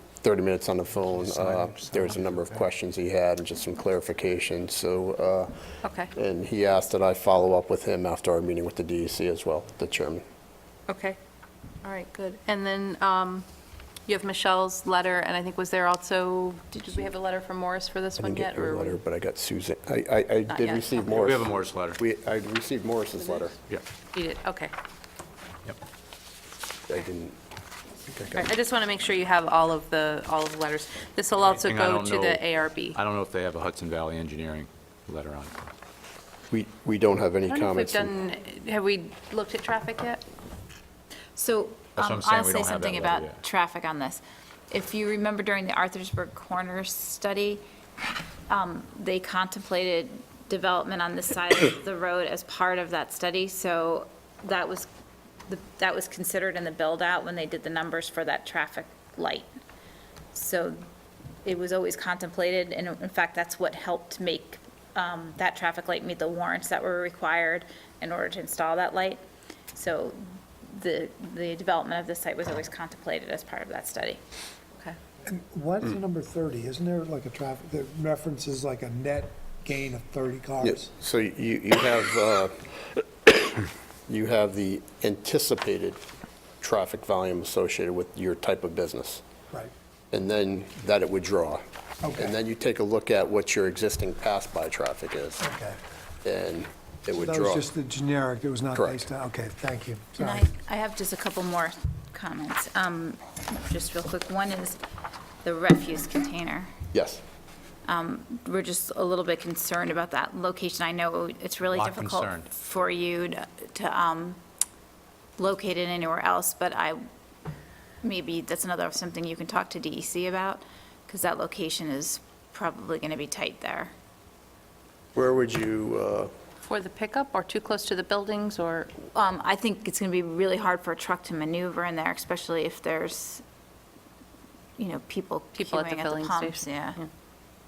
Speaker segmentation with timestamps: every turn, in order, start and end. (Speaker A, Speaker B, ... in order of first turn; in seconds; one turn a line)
Speaker A: 0.2-5.5
Speaker B: 1.3-2.3
Speaker C: 5.8-6.1
Speaker A: 6.1-10.2
Speaker C: 10.9-11.2
Speaker C: 11.8-13.4
Speaker C: 14.1-19.0
Speaker A: 18.2-23.6
Speaker C: 20.5-21.2
Speaker B: 21.1-22.0
Speaker C: 24.1-24.7
Speaker A: 26.9-27.4
Speaker A: 28.1-28.5
Speaker C: 28.4-33.0
Speaker B: 31.5-35.5
Speaker A: 36.5-38.1
Speaker C: 37.5-40.2
Speaker D: 41.4-47.6
Speaker B: 42.0-43.4
Speaker D: 48.5-54.9
Speaker D: 55.5-59.5
Speaker D: 60.3-60.8
Speaker D: 61.5-69.2
Speaker D: 69.7-74.2
Speaker E: 75.2-80.9
Speaker A: 80.6-86.0
Speaker A: 86.6-89.2
Speaker A: 90.1-95.5
Speaker E: 92.0-92.4
Speaker E: 95.4-95.8
Speaker A: 96.2-97.7
Speaker E: 97.2-100.5
Speaker A: 98.7-99.1
Speaker D: 100.2-104.8
Speaker D: 105.4-106.7
Speaker A: 106.9-107.2
Speaker D: 107.8-114.4
Speaker B: 111.7-112.5
Speaker D: 115.4-117.0
Speaker D: 118.0-123.9
Speaker A: 125.2-126.3
Speaker C: 126.6-128.9
Speaker D: 129.1-133.4
Speaker D: 134.8-137.0
Speaker C: 135.6-137.1